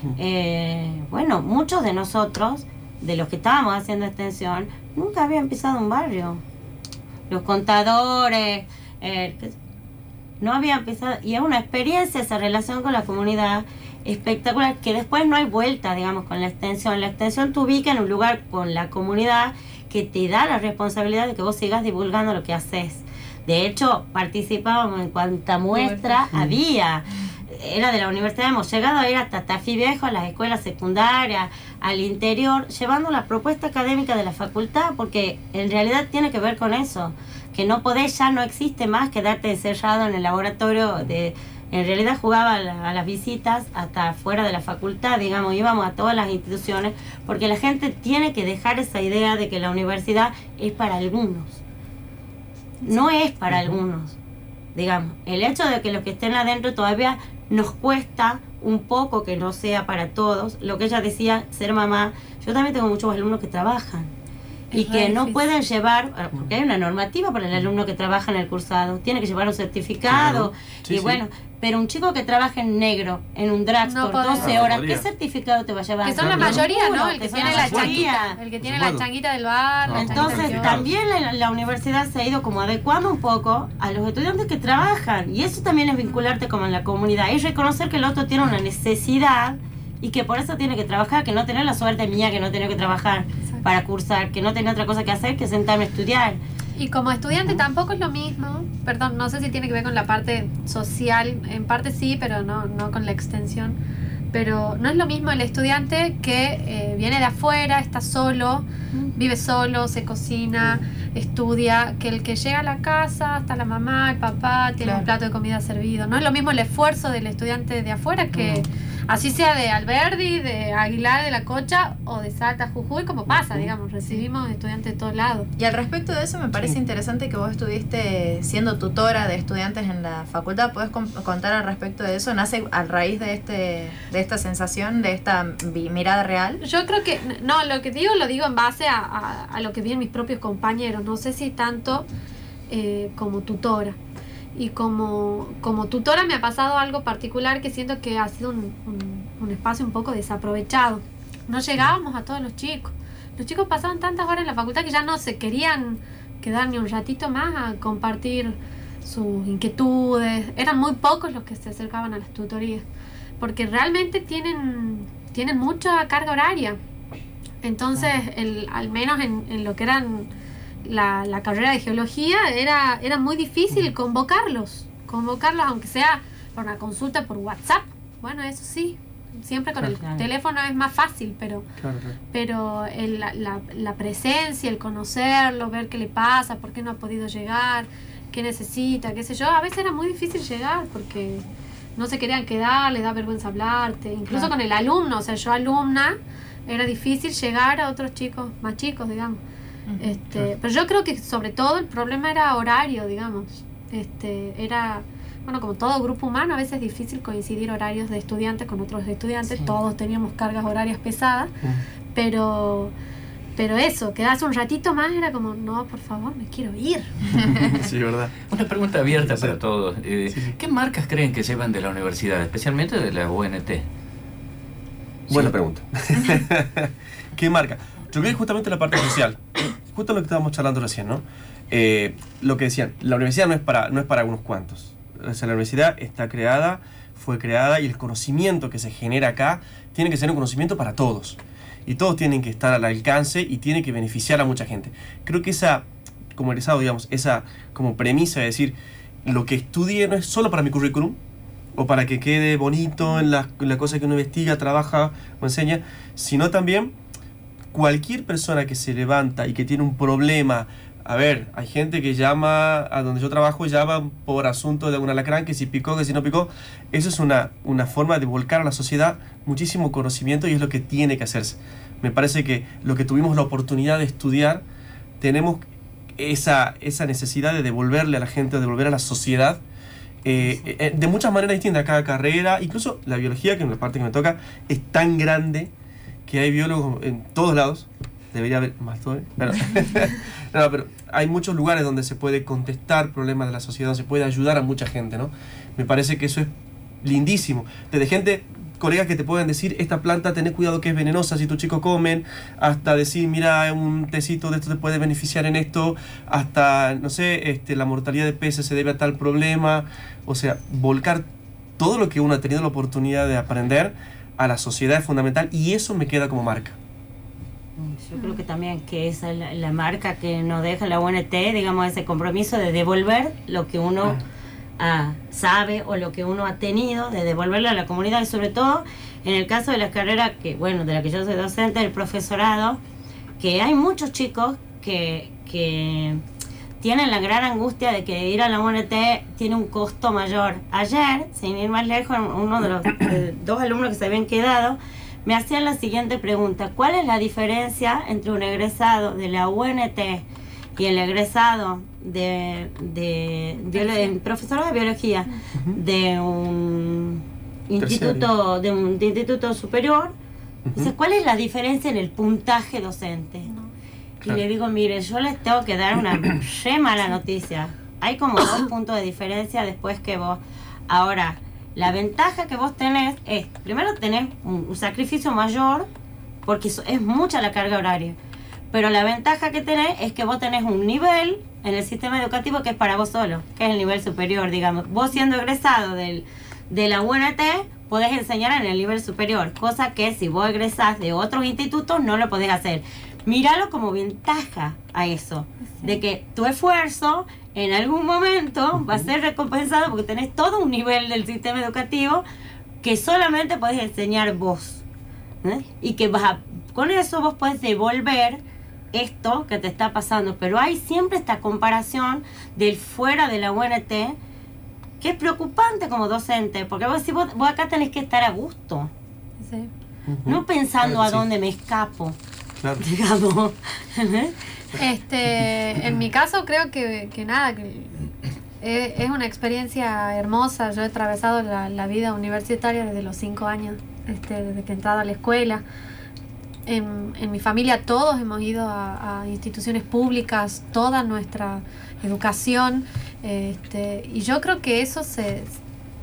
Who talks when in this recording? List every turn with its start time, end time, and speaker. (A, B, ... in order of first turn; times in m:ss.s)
0:00.2-0:06.4 A
0:07.3-0:09.6 A
0:10.4-0:51.6 A
0:25.7-0:26.2 B
0:52.8-0:54.2 A
0:54.7-1:04.1 A
1:04.7-1:05.4 B
1:04.7-1:18.4 A
1:10.1-1:11.2 C
1:13.8-1:14.6 B
1:14.4-1:15.1 C
1:16.0-1:20.8 B
1:16.2-1:16.6 C
1:17.4-1:19.0 C
1:19.8-1:20.9 C
1:19.9-1:36.4 A
1:36.8-1:43.8 B
1:44.3-2:05.5 B
1:54.8-1:55.1 D
1:58.3-1:58.6 A
2:03.3-2:03.7 C
2:05.6-2:16.6 D
2:16.6-2:22.1 B
2:22.7-2:24.0 B
2:24.5-2:42.8 B
2:43.4-2:46.8 B
2:47.6-2:50.3 B
2:50.8-3:01.6 B
2:59.8-3:00.2 A
3:01.8-3:02.2 C
3:02.3-3:11.4 B
3:12.0-3:19.4 B
3:19.9-3:20.1 D
3:20.0-3:31.5 B
3:32.1-3:32.9 B
3:33.6-3:37.1 B
3:37.5-3:38.3 C
3:38.5-3:43.8 E
3:39.1-3:39.6 C
3:45.3-4:11.2 C
4:11.7-4:16.9 C
4:17.7-4:34.6 C
4:35.2-4:39.6 C
4:40.2-4:45.7 C
4:46.3-5:11.3 C
5:11.8-5:16.8 C
5:17.8-5:24.2 A
5:24.8-5:32.8 A
5:33.4-5:36.2 A
5:36.8-5:50.2 A
5:50.8-6:00.1 A
5:53.6-5:54.1 B
5:57.8-5:58.3 C
6:00.6-6:00.9 C
6:00.7-6:03.5 A
6:03.4-6:03.7 B
6:04.2-6:15.9 A
6:16.4-6:18.2 A
6:18.7-6:42.2 A
6:35.7-6:36.0 B
6:42.8-6:44.8 A
6:45.4-6:48.4 A
6:48.9-6:54.2 A
6:55.0-6:58.9 A
6:59.4-6:59.7 B
7:00.1-7:01.2 C
7:00.2-7:02.2 A
7:02.8-7:04.3 A
7:04.8-7:07.9 B
7:08.6-7:15.6 B
7:16.6-7:25.6 B